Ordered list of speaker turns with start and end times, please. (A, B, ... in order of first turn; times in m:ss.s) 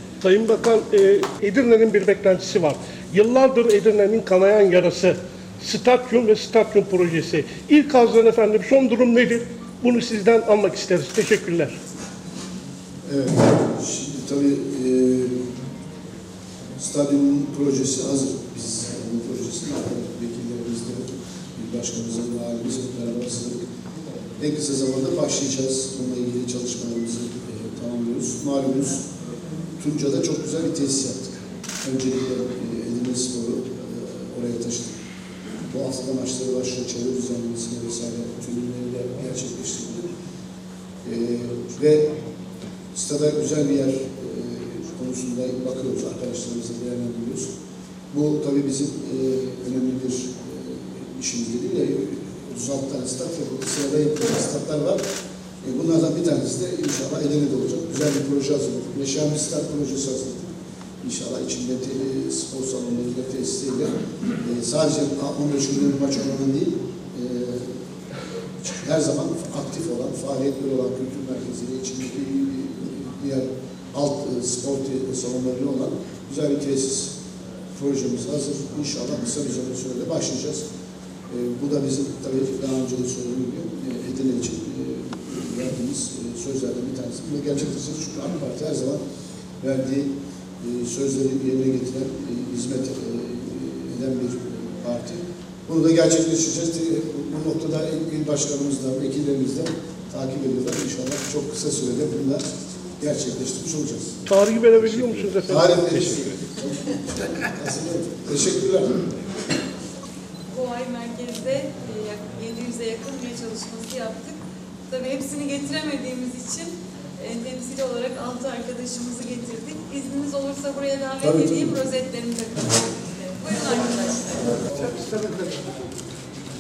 0:00.2-0:11.8 A
0:13.1-0:15.3 B
0:16.8-0:23.6 B
0:24.4-0:29.0 B
0:29.8-0:35.0 B
0:35.7-0:40.1 B
0:41.0-0:42.1 B
0:42.9-0:47.5 B
0:48.1-0:55.0 B
0:55.6-1:00.5 B
1:01.0-1:07.7 B
1:08.6-1:17.1 B
1:17.8-1:20.6 B
1:21.3-1:29.0 B
1:29.6-1:42.4 B
1:43.0-1:44.2 B
1:44.3-1:46.4 A
1:44.8-1:49.0 B
1:50.5-1:54.4 C
1:54.9-2:04.6 C
2:01.2-2:01.8 B